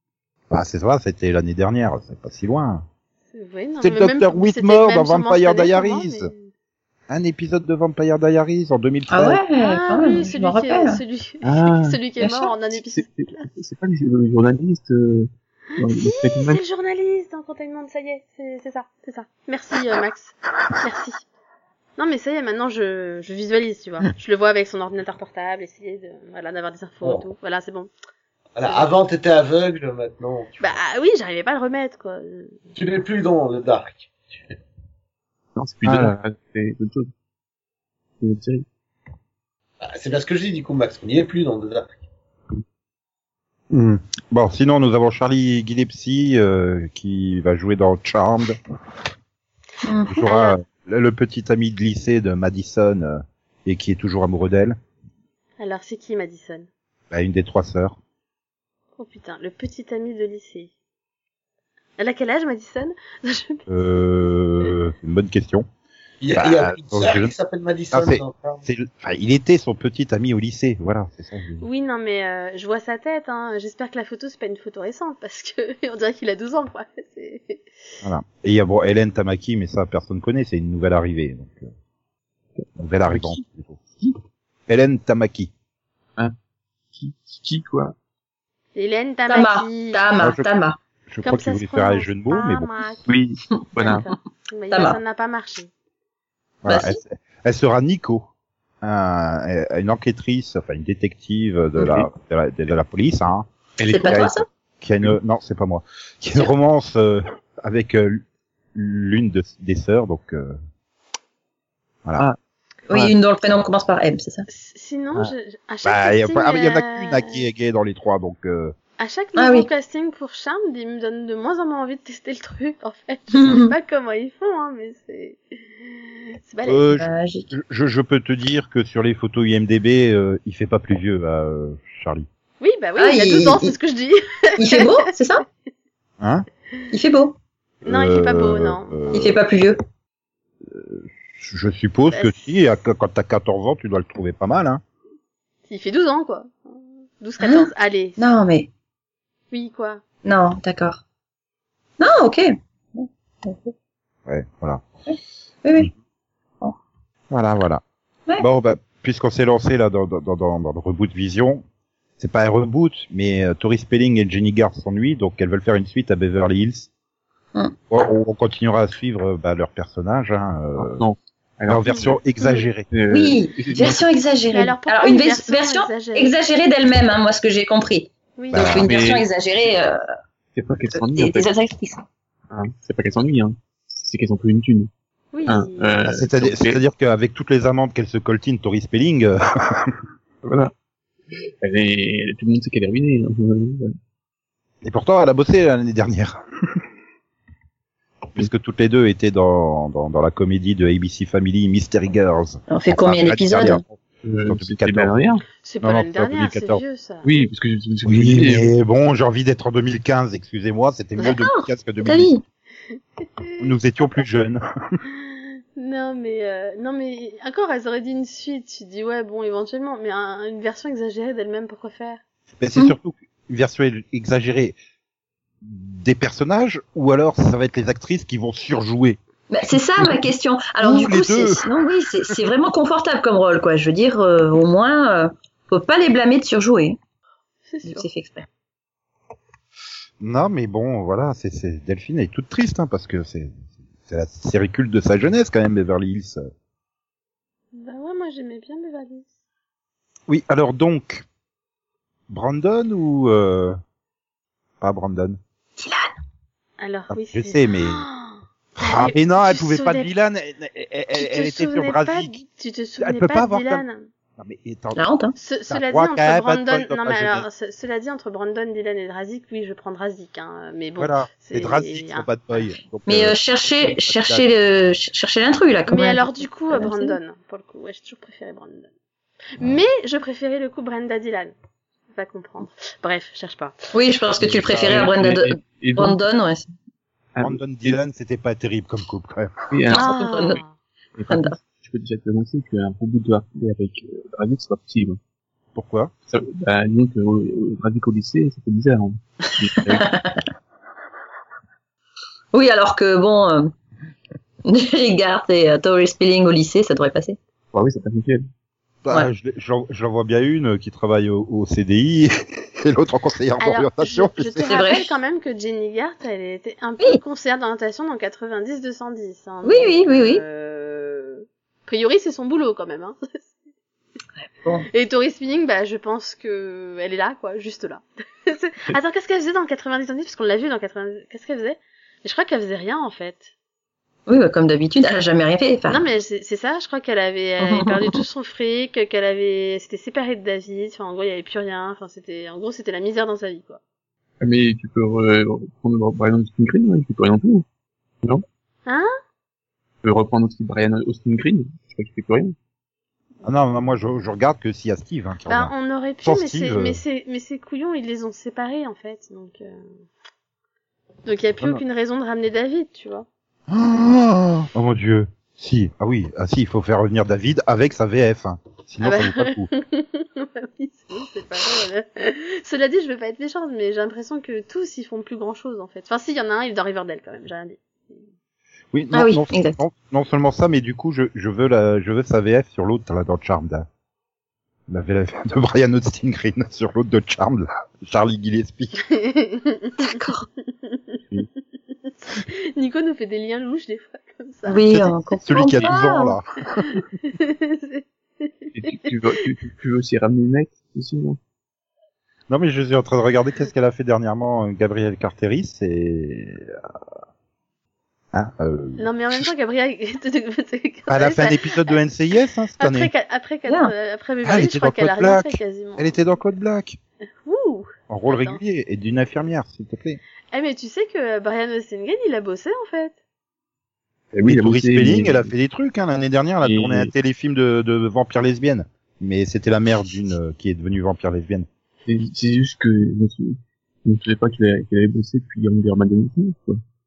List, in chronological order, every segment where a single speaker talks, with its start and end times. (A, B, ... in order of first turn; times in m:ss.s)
0:00.5-0:02.8 A
0:03.3-0:06.5 B
0:03.8-0:06.3 A
0:07.1-0:09.4 A
0:09.1-0:11.0 C
0:09.6-0:13.4 B
0:11.4-0:12.0 D
0:12.2-0:12.5 C
0:12.9-0:16.6 D
0:15.8-0:21.2 B
0:22.0-0:27.9 B
0:28.5-0:30.8 E
0:30.6-0:32.6 B
0:32.7-0:34.1 E
0:35.6-0:37.1 D
0:35.8-0:36.1 A
0:38.2-0:38.6 D
0:39.8-0:42.0 E
0:43.7-0:48.6 A
0:49.8-0:50.2 C
0:50.0-0:54.8 A
0:50.2-0:50.6 B
0:55.6-0:56.7 B
0:57.1-0:58.0 A
0:59.0-1:00.7 B
1:02.0-1:03.7 B
1:03.7-1:05.6 A
1:06.2-1:08.6 E
1:06.3-1:07.3 A
1:07.9-1:11.6 A
1:11.6-1:17.6 B
1:18.0-1:21.7 A
1:22.6-1:23.4 D
1:22.8-1:23.8 A
1:24.7-1:25.5 A
1:26.9-1:27.9 D
1:28.8-1:30.0 B
1:29.3-1:30.8 C
1:30.2-1:30.4 A
1:31.1-1:33.0 A
1:31.2-1:33.0 B
1:33.1-1:34.0 D
1:33.8-1:35.7 B
1:34.7-1:35.0 C
1:36.6-1:38.3 A
1:36.6-1:37.0 C
1:38.8-1:50.6 A
1:43.8-1:44.3 D
1:43.9-1:44.4 C
1:52.9-1:54.4 C
1:54.5-1:57.4 B
1:55.8-1:58.7 A
1:59.0-2:07.0 B
1:59.4-1:59.7 C
2:03.3-2:03.7 C
2:06.6-2:12.3 A
2:07.0-2:07.5 C
2:12.6-2:15.1 B
2:13.0-2:13.7 C
2:14.6-2:15.4 C
2:16.2-2:16.4 A
2:16.9-2:17.3 C
2:17.8-2:19.4 A
2:17.8-2:19.3 B
2:19.1-2:19.8 C
2:20.6-2:24.8 A
2:22.1-2:22.4 B
2:25.7-2:28.2 B
2:27.4-2:28.7 C
2:29.5-2:30.0 B
2:30.2-2:31.0 C
2:32.0-2:33.7 C
2:34.2-2:34.8 A
2:35.1-2:35.9 C
2:37.3-2:37.8 A
2:38.4-2:41.6 A
2:42.2-2:46.9 A
2:47.9-2:51.0 A
2:50.8-2:52.2 D
2:51.7-2:52.9 A
2:51.9-2:52.5 B
2:52.9-2:54.0 D
2:53.1-3:00.0 C
2:54.5-2:56.3 B
2:58.4-2:58.8 B
2:58.5-2:58.9 A
2:58.6-2:59.3 D
3:00.5-3:01.5 D
3:00.9-3:02.0 C
3:02.5-3:04.9 D
3:05.3-3:06.0 B
3:05.4-3:06.8 D
3:06.0-3:10.0 A
3:10.4-3:10.7 D
3:11.6-3:14.0 D
3:14.8-3:16.4 A
3:18.4-3:25.1 A
3:22.7-3:23.8 C
3:24.2-3:25.4 D
3:25.6-3:27.5 B
3:25.8-3:26.8 A
3:27.2-3:28.7 D
3:28.0-3:32.3 A
3:31.2-3:32.4 C
3:33.2-3:33.6 B
3:33.6-3:35.0 A
3:35.2-3:42.2 B
3:42.6-3:44.8 A
3:45.6-3:49.2 A
3:49.5-3:57.0 C
3:50.0-3:50.2 A
3:50.8-3:51.7 A
3:57.7-3:58.1 B
3:57.8-3:58.5 C
4:00.2-4:06.4 A
4:07.7-4:09.3 B
4:10.3-4:11.2 A
4:12.3-4:13.8 A
4:14.8-4:15.4 A
4:15.8-4:16.1 C
4:16.8-4:20.1 B
4:17.1-4:18.0 A
4:18.8-4:22.4 A
4:21.1-4:24.1 B
4:23.0-4:23.8 A
4:24.4-4:25.0 A
4:24.9-4:25.3 C
4:25.4-4:32.6 B
4:25.7-4:27.4 A
4:31.0-4:34.5 A
4:33.0-4:37.2 C
4:35.9-4:38.9 B
4:39.6-4:41.5 B
4:42.1-4:43.8 B
4:43.9-4:46.7 C
4:44.4-4:46.2 D
4:47.3-4:48.0 D
4:47.4-4:49.7 A
4:49.7-4:50.6 D
4:49.9-4:50.6 C
4:49.9-4:50.7 B
4:51.2-4:55.2 D
4:51.3-4:51.6 C
4:55.7-4:56.1 A
4:56.3-5:00.1 D
4:59.8-5:00.4 C
5:02.5-5:03.7 C
5:04.6-5:07.4 C
5:07.7-5:08.5 D
5:09.0-5:14.7 A
5:13.6-5:23.2 B
5:14.6-5:15.1 C
5:19.6-5:20.4 C
5:24.9-5:33.5 B
5:34.3-5:36.0 C
5:35.9-5:43.8 B
5:37.6-5:38.2 C
5:44.4-5:47.6 D
5:50.0-5:52.5 D
5:53.4-5:57.0 A
5:55.5-5:59.9 B
6:01.2-6:03.3 B
6:03.7-6:09.7 A
6:09.0-6:18.2 B
6:18.9-6:23.9 A
6:19.1-6:19.8 C
6:24.9-6:29.0 A
6:29.0-6:30.3 B
6:30.0-6:30.4 C
6:30.8-6:31.2 B
6:32.2-6:35.0 B
6:34.6-6:36.4 C
6:34.9-6:37.0 A
6:36.8-6:39.1 B
6:38.7-6:41.4 D
6:42.5-6:46.8 A
6:48.3-6:49.5 A
6:49.0-6:52.0 B
6:51.1-6:53.1 A
6:52.8-6:56.2 B
6:53.7-6:53.9 C
6:54.4-6:57.0 A
6:57.4-6:58.6 B
6:58.1-7:00.2 A
7:00.5-7:03.2 B
7:04.3-7:05.5 D
7:04.4-7:11.7 A
7:06.6-7:07.1 D
7:12.0-7:16.8 D